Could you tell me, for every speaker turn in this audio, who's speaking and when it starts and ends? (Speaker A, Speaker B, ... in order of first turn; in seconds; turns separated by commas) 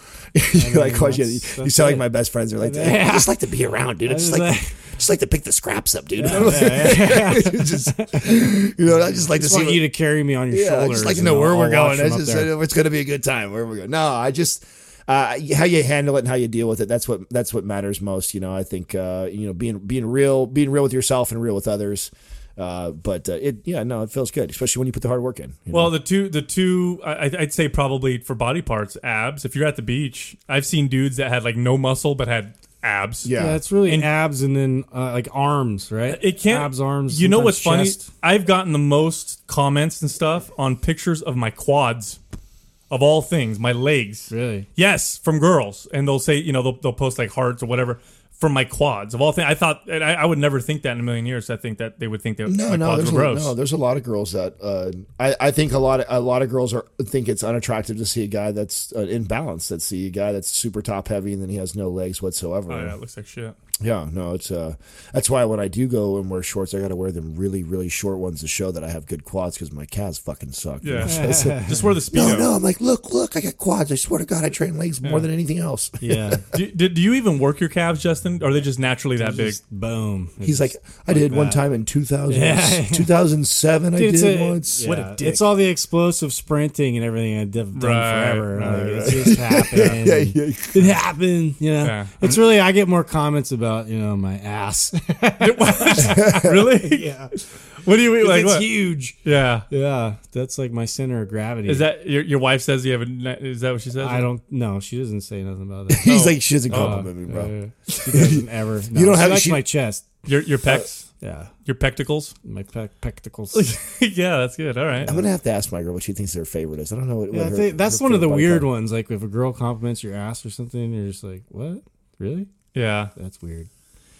Speaker A: 0.3-9.9, Speaker B: 0.5-3.4, Speaker B: 4.0-4.7, Speaker B: 6.1-8.4, Speaker B: 9.3-12.5, Speaker A: 10.5-26.0, Speaker C: 25.7-33.3, Speaker A: 33.2-33.6, Speaker B: 33.4-38.1, Speaker C: 33.8-34.1, Speaker C: 36.1-42.2, Speaker C: 42.9-53.5, Speaker B: 44.3-44.7, Speaker A: 52.4-63.0, Speaker C: 62.7-63.5, Speaker A: 63.8-76.4, Speaker C: 70.8-72.5, Speaker B: 71.0-71.8, Speaker C: 75.0-75.3, Speaker B: 76.0-76.5, Speaker C: 76.5-79.6, Speaker B: 79.2-81.6, Speaker A: 80.4-84.9, Speaker B: 82.3-83.1, Speaker B: 83.9-97.3, Speaker C: 84.8-85.5, Speaker C: 87.7-88.6, Speaker A: 88.5-90.9, Speaker C: 91.8-92.4, Speaker C: 95.4-99.7, Speaker A: 96.0-96.4, Speaker B: 98.2-99.2, Speaker B: 99.7-101.9, Speaker C: 101.7-104.3, Speaker B: 104.0-106.1, Speaker A: 105.9-109.6, Speaker C: 106.0-107.0, Speaker B: 106.7-110.1, Speaker C: 110.2-111.1, Speaker B: 111.2-111.5, Speaker C: 111.7-112.3, Speaker B: 112.4-113.7, Speaker C: 113.5-115.1, Speaker A: 115.0-118.7, Speaker B: 117.3-122.5, Speaker C: 122.7-123.1, Speaker B: 123.2-123.7